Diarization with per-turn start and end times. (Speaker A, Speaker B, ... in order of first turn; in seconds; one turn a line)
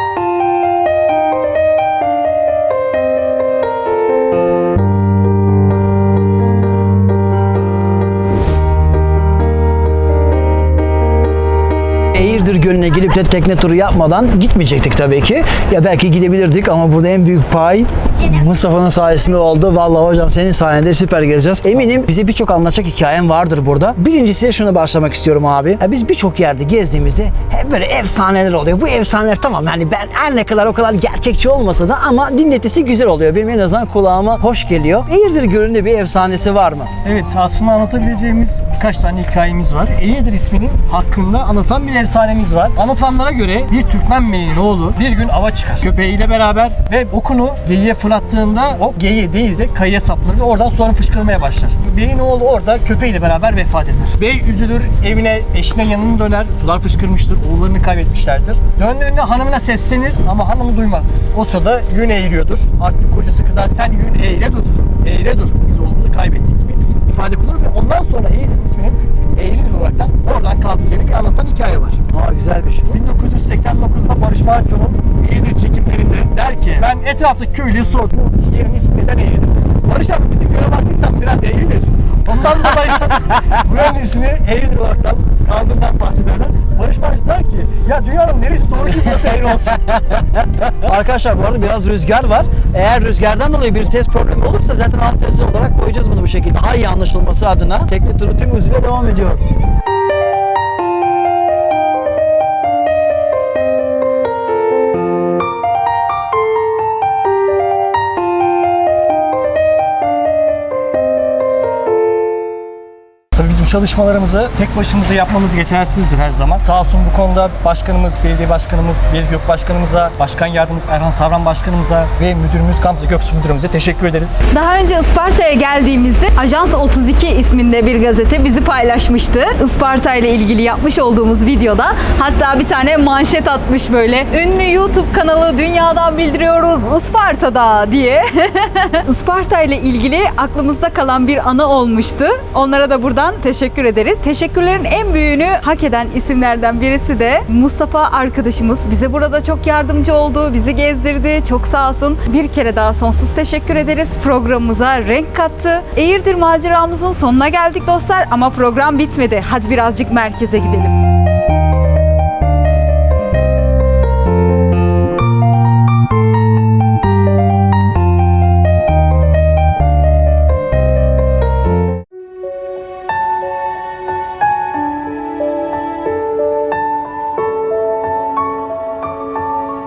Speaker A: 12.2-36.9
Speaker B: 37.0-72.1
Speaker A: 72.1-72.9
Speaker B: 72.9-89.8
Speaker A: 89.0-99.4
Speaker B: 113.3-124.4
Speaker C: 124.5-160.9